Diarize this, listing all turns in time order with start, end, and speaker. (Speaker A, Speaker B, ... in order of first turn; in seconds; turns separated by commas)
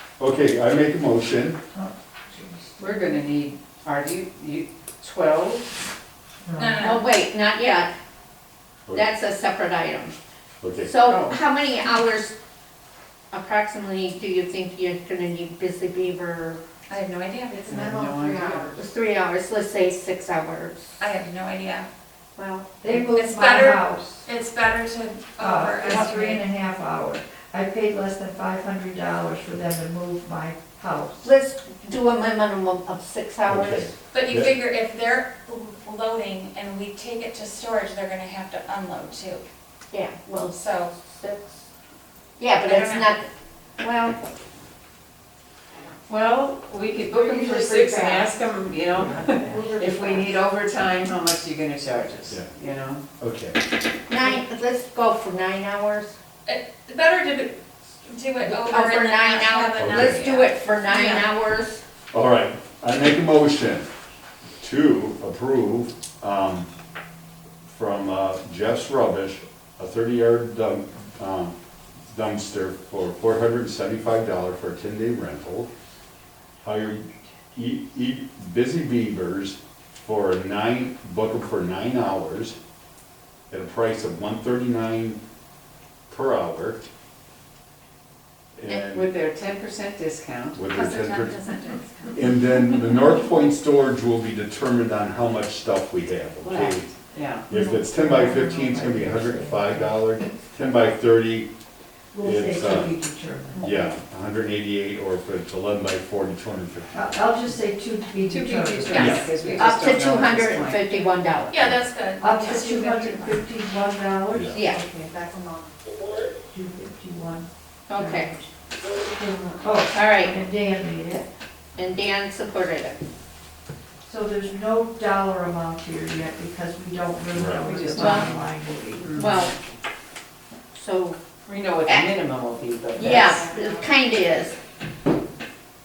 Speaker A: 0.2-1.6, Speaker B: 1.7-3.2, Speaker C: 2.8-5.7, Speaker B: 6.4-6.9, Speaker D: 6.6-7.1, Speaker E: 6.8-7.9, Speaker E: 8.9-10.2, Speaker A: 10.6-10.9, Speaker E: 10.8-12.3, Speaker C: 11.0-11.4, Speaker E: 13.3-16.6, Speaker D: 16.9-18.0, Speaker C: 17.7-18.8, Speaker E: 18.3-21.0, Speaker D: 21.0-21.9, Speaker E: 22.4-22.8, Speaker B: 22.8-24.2, Speaker D: 23.1-26.4, Speaker B: 25.4-31.3, Speaker E: 31.2-33.9, Speaker A: 33.5-34.5, Speaker D: 34.1-39.4, Speaker E: 39.9-40.6, Speaker D: 40.5-40.9, Speaker E: 42.4-43.3, Speaker D: 42.6-43.1, Speaker E: 43.8-44.2, Speaker C: 46.1-53.0, Speaker B: 47.1-48.3, Speaker B: 48.9-50.4, Speaker A: 53.2-53.6, Speaker E: 54.1-56.1, Speaker D: 56.5-61.3, Speaker E: 58.4-61.8, Speaker A: 59.8-60.3, Speaker A: 62.1-63.9, Speaker A: 64.6-66.7, Speaker A: 67.7-71.5, Speaker A: 72.1-75.7, Speaker A: 76.6-82.6, Speaker A: 83.5-85.2, Speaker A: 86.1-86.8, Speaker A: 88.6-89.1, Speaker C: 88.7-90.7, Speaker A: 90.5-91.4, Speaker D: 90.7-92.4, Speaker A: 92.1-96.9, Speaker C: 96.4-97.5, Speaker A: 97.5-101.5, Speaker B: 97.5-100.0, Speaker B: 102.1-104.0, Speaker A: 102.2-102.9, Speaker A: 103.6-107.2, Speaker B: 106.9-109.7, Speaker C: 108.2-111.3, Speaker A: 108.9-109.3, Speaker E: 109.6-111.7, Speaker D: 111.5-113.4, Speaker B: 112.2-115.7, Speaker A: 114.3-114.6, Speaker E: 114.5-114.8, Speaker B: 116.4-118.5, Speaker E: 117.9-118.3, Speaker B: 119.0-121.3, Speaker E: 119.9-120.4, Speaker E: 121.8-123.0, Speaker B: 124.0-129.2, Speaker A: 127.3-127.7, Speaker C: 127.7-128.4, Speaker E: 128.0-128.3, Speaker C: 129.0-129.5, Speaker E: 129.2-129.6, Speaker E: 130.7-131.2, Speaker C: 131.5-133.9, Speaker E: 131.8-132.1, Speaker E: 133.0-134.6